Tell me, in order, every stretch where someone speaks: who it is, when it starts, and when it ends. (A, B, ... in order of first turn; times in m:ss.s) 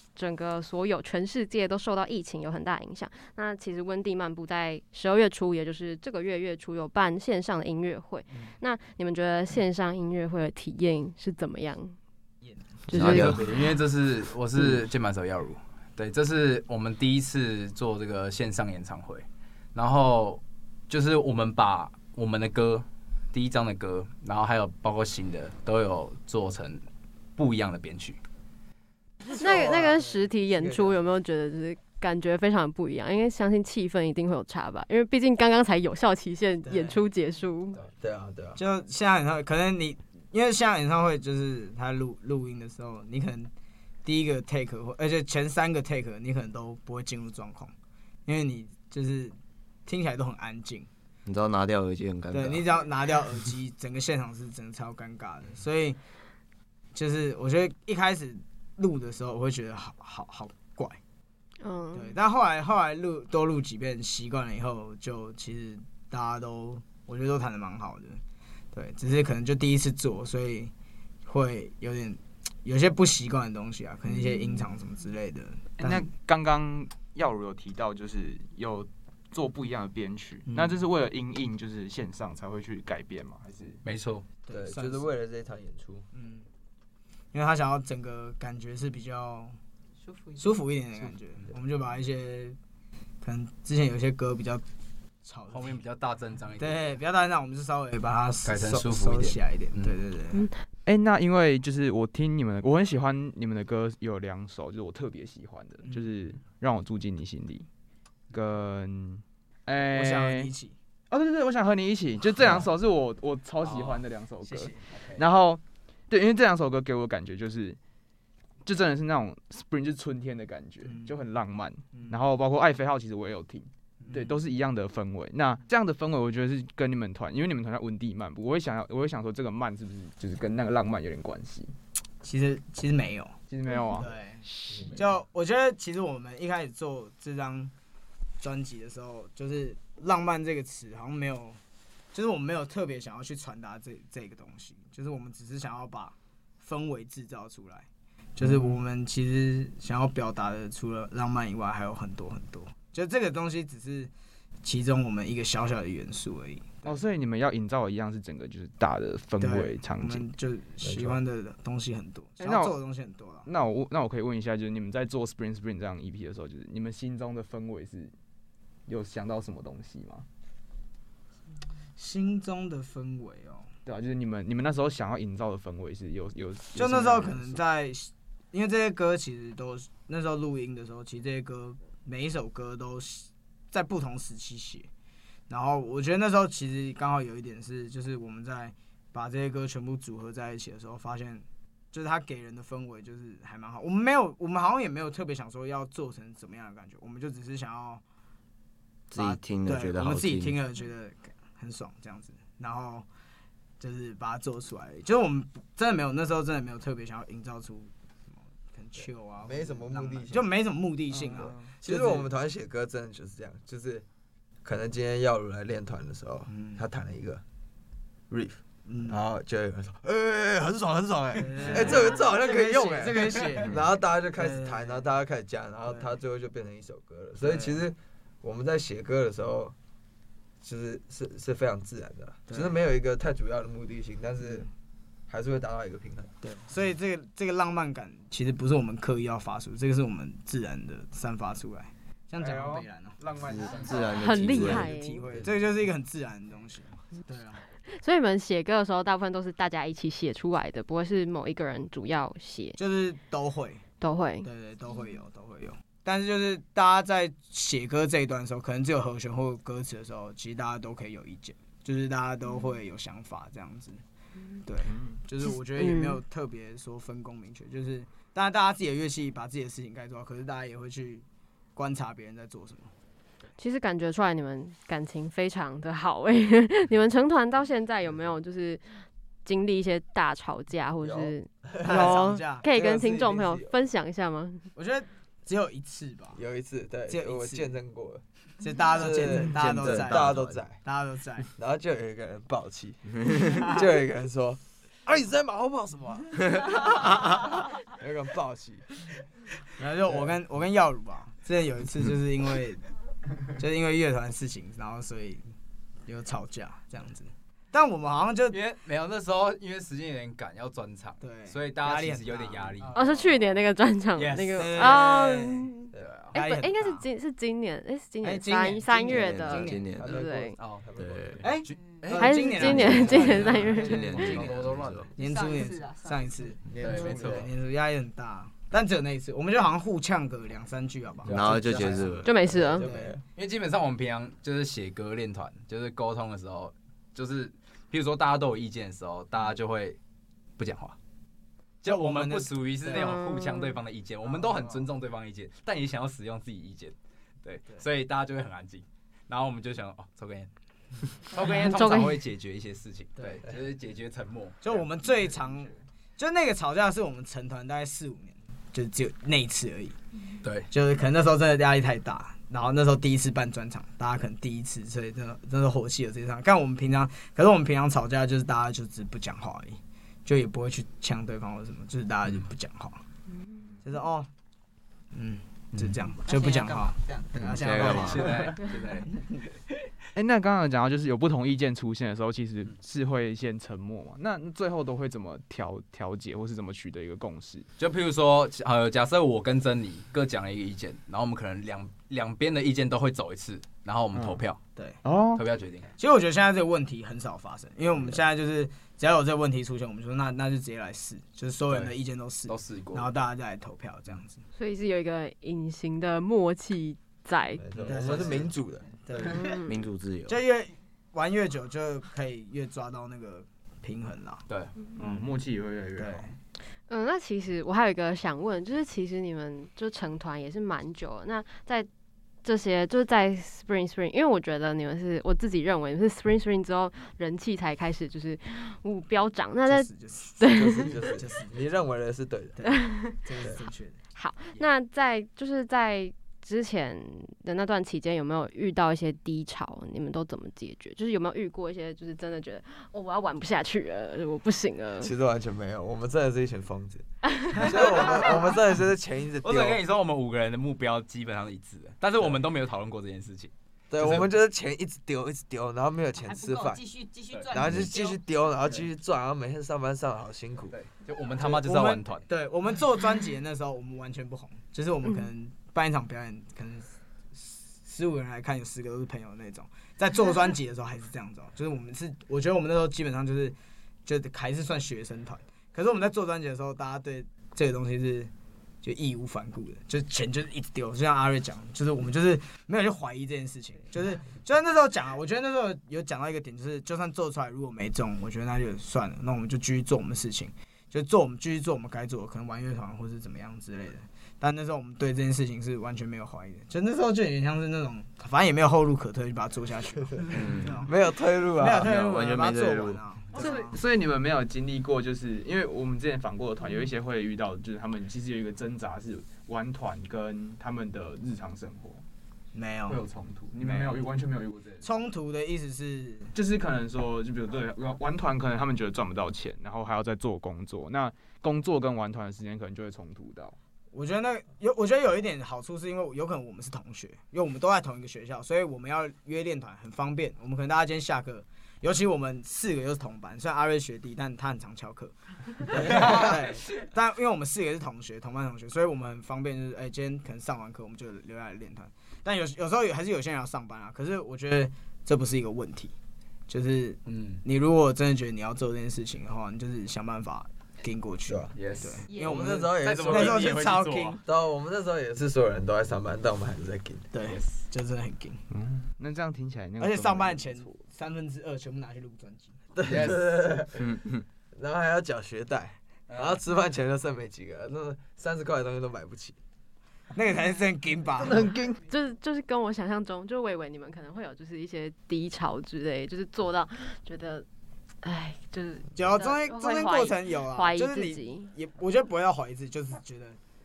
0:00.2-0:12.0 A
0:12.4-0:12.8 B
0:12.9-0:13.4 A
0:12.9-0:13.4 C
0:12.9-0:28.2 D
0:29.4-0:37.8 A
0:29.4-0:30.0 E
0:30.5-0:31.0 E
0:36.7-0:37.0 B
0:38.0-0:38.6 E
0:38.6-0:43.5 B
0:44.0-0:47.7 B
0:48.2-0:50.9 B
0:51.2-0:52.6 C
0:52.3-0:56.0 B
0:56.9-1:01.0 B
1:01.6-1:02.1 A
1:01.9-1:08.2 B
1:08.7-1:10.7 B
1:11.2-1:16.1 B
1:15.8-1:23.8 F
1:20.5-1:20.8 B
1:23.8-1:24.2 D
1:24.5-1:25.1 B
1:24.5-1:26.0 E
1:26.1-1:26.4 B
1:27.3-1:29.6 B
1:30.0-1:30.6 G
1:30.4-1:32.6 B
1:33.2-1:34.6 B
1:35.2-1:35.8 B
1:35.5-1:36.9 D
1:36.6-1:40.5 B
1:38.4-1:40.0 D
1:40.8-1:47.6 F
1:48.3-1:50.5 F
1:49.8-1:50.7 B
1:51.1-1:57.8 F
1:53.6-1:54.0 D
1:54.4-1:54.8 B
1:54.9-1:55.2 D
1:58.6-2:11.7 F
2:00.8-2:01.2 B
2:04.1-2:04.4 B
2:12.2-2:13.4 B
2:13.5-2:15.1 F
2:14.0-2:17.7 B
2:18.4-2:21.6 B
2:22.1-2:34.1 B
2:28.4-2:28.7 F
2:34.6-2:37.0 B
2:36.8-2:40.2 F
2:39.4-2:43.5 B
2:40.8-2:41.2 E
2:42.4-2:42.7 F
2:43.4-2:48.1 F
2:48.9-2:50.2 F
2:52.0-2:53.7 B
2:53.8-2:57.6 F
2:56.7-3:04.9 B
3:05.5-3:18.0 B
3:19.1-3:20.6 C
3:19.1-3:23.0 B
3:23.8-3:32.3 B
3:29.4-3:30.5 E
3:31.2-3:31.7 F
3:31.8-3:34.0 E
3:34.6-3:37.4 E
3:36.5-3:36.8 B
3:38.3-3:49.7 E
3:38.8-3:39.2 B
3:41.4-3:43.8 B
3:44.4-3:45.0 B
3:47.4-3:47.8 B
3:50.6-3:54.7 E
3:52.5-3:52.8 B
3:55.3-3:56.3 E
3:56.4-4:03.2 B
4:02.4-4:04.0 F
4:03.5-4:04.9 C
4:03.5-4:04.2 E
4:03.8-4:07.6 B
4:04.1-4:05.2 A
4:07.9-4:12.8 A
4:12.8-4:13.8 B
4:14.0-4:14.5 A
4:14.4-4:24.0 B
4:24.6-4:31.2 B
4:24.8-4:25.2 F
4:25.8-4:26.2 A
4:31.8-4:32.9 B
4:33.6-4:44.7 A
4:41.0-4:43.7 E
4:41.8-4:42.7 B
4:44.8-4:46.4 B
4:46.3-4:48.2 E
4:47.1-4:47.7 B
4:48.6-4:51.5 B
4:48.9-4:50.8 E
4:49.3-4:50.6 C
4:51.6-4:58.9 E
4:59.8-5:02.8 B
5:03.6-5:05.5 B
5:06.1-5:08.6 B
5:08.5-5:13.3 D
5:11.2-5:12.9 B
5:12.9-5:20.6 A
5:14.1-5:15.1 D
5:14.6-5:15.7 B
5:15.9-5:16.4 D
5:16.3-5:17.0 B
5:18.2-5:19.9 B
5:19.1-5:20.1 C
5:19.9-5:21.5 E
5:20.6-5:25.1 D
5:21.0-5:21.4 C
5:21.4-5:24.6 B
5:22.1-5:24.4 A
5:22.6-5:25.1 C
5:22.8-5:24.0 E
5:25.2-5:26.5 G
5:25.2-5:33.2 B
5:26.7-5:27.5 E
5:26.8-5:27.5 D
5:31.2-5:32.1 D
5:31.3-5:32.4 C
5:31.8-5:33.2 E
5:32.2-5:32.9 A
5:33.3-5:40.0 D
5:40.6-5:41.0 D
5:41.8-5:50.5 D
5:41.8-5:43.3 B
5:42.9-5:43.8 A
5:44.2-5:44.8 B
5:51.1-5:54.8 D
5:51.4-5:52.2 A
5:53.2-5:53.5 B
5:54.6-6:00.0 B
6:00.4-6:00.7 D
6:00.7-6:13.0 B
6:13.8-6:14.3 B
6:15.1-6:18.7 B
6:16.2-6:17.3 G
6:17.4-6:18.3 C
6:17.6-6:19.1 D
6:20.1-6:27.7 F
6:27.8-6:34.6 D
6:34.1-6:34.4 F
6:34.8-6:35.0 B
6:35.0-6:35.4 F
6:35.3-6:35.9 D
6:36.0-6:44.4 B
6:42.5-6:43.1 D
6:44.5-6:47.6 A
6:47.6-6:49.3 E
6:47.9-6:48.5 B
6:49.0-6:49.6 B
6:49.2-6:49.8 A
6:49.6-6:50.4 C
6:50.3-6:54.4 B
6:54.5-6:54.7 D
6:54.9-6:56.3 F
6:55.0-6:55.3 B
6:56.0-6:56.3 B
6:56.9-7:01.9 A
7:02.4-7:10.9 A
7:09.6-7:11.6 B
7:10.4-7:12.6 E
7:12.6-7:14.0 B
7:12.7-7:13.2 A
7:14.1-7:25.1 A
7:25.0-7:29.8 E
7:29.4-7:34.3 D
7:33.9-7:36.8 E
7:36.2-7:38.2 G
7:37.5-7:40.8 E
7:40.7-7:42.2 D
7:41.4-7:58.3 B
7:58.8-8:20.9 B
8:20.3-8:20.8 C
8:20.7-8:22.1 E
8:21.6-8:23.8 B
8:21.8-8:23.0 C
8:23.3-8:32.0 F
8:32.5-8:33.0 B
8:32.9-8:34.9 F
8:33.6-8:34.0 B
8:34.8-8:36.3 B
8:36.3-8:43.6 F
8:43.9-9:05.9 B
8:55.8-8:56.4 E
9:06.5-9:14.2 B
9:07.0-9:07.4 D
9:11.3-9:11.5 E
9:11.5-9:12.0 D
9:12.1-9:12.5 G
9:12.2-9:17.1 E
9:12.7-9:14.2 D
9:17.1-9:18.4 B
9:17.2-9:17.7 D
9:18.5-9:20.8 F
9:19.8-9:22.5 B
9:22.8-9:24.0 E
9:22.8-9:23.4 D
9:23.8-9:24.2 F
9:24.5-9:29.4 E
9:26.1-9:26.4 D
9:30.1-9:31.5 B
9:31.2-9:31.8 F
9:31.9-9:37.4 A
9:38.0-9:41.5 A
9:39.0-9:43.4 B